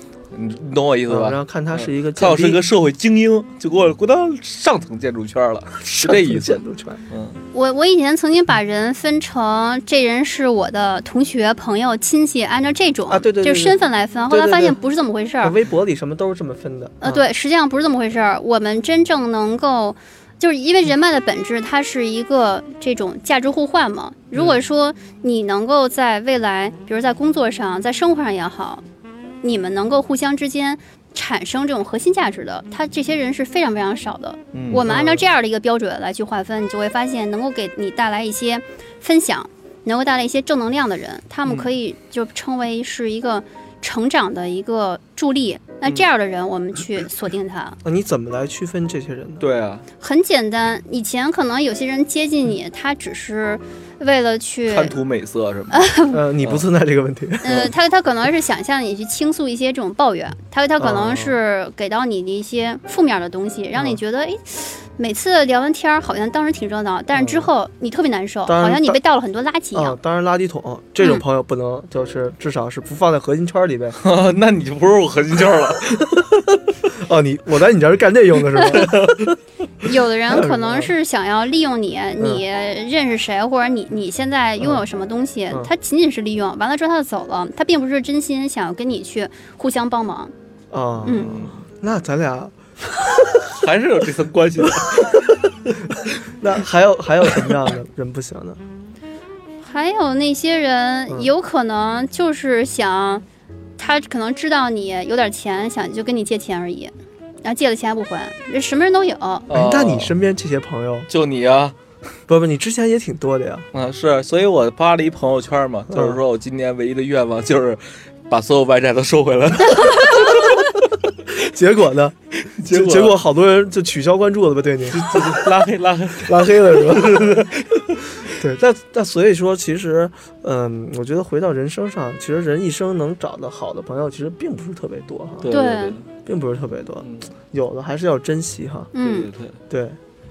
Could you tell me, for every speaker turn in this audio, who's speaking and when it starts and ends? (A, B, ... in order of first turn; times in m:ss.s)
0:00.3-0:07.4 A
0:01.1-0:02.6 B
0:05.8-0:07.0 B
0:07.5-0:15.6 C
0:13.1-0:14.8 B
0:15.4-0:17.2 B
0:17.0-0:28.8 C
0:29.4-0:47.8 C
0:34.5-0:34.9 A
0:34.8-0:35.3 B
0:47.8-0:49.4 B
0:49.4-0:49.9 A
0:50.0-0:54.9 C
0:54.7-0:55.9 A
0:55.7-0:56.2 C
0:56.1-0:57.7 B
0:56.4-0:56.6 A
0:57.4-1:10.0 C
1:00.8-1:01.4 B
1:07.1-1:07.5 B
1:08.5-1:09.0 B
1:09.8-1:14.0 B
1:14.0-1:16.4 A
1:16.8-1:19.3 B
1:18.6-1:18.9 C
1:18.7-1:19.3 A
1:19.8-1:30.3 C
1:20.3-1:20.9 B
1:30.7-1:33.4 B
1:31.0-1:31.3 C
1:31.2-1:31.6 A
1:33.4-1:35.3 A
1:34.6-1:35.3 B
1:35.8-1:38.6 B
1:39.6-1:43.2 C
1:43.8-1:46.9 C
1:47.4-1:49.5 C
1:49.5-1:50.2 A
1:49.5-1:51.1 B
1:51.1-1:51.8 A
1:52.3-1:53.7 B
1:53.7-2:00.6 A
1:55.9-1:56.2 B
1:59.7-2:00.5 C
2:01.4-2:02.2 B
2:02.6-2:03.2 A
2:02.7-2:05.5 B
2:04.9-2:08.0 A
2:06.2-2:07.5 B
2:08.2-2:15.5 B
2:15.4-2:16.1 A
2:15.5-2:16.0 C
2:16.2-2:18.9 B
2:17.0-2:17.3 A
2:18.9-2:19.3 C
2:19.0-2:19.6 A
2:19.7-2:20.0 B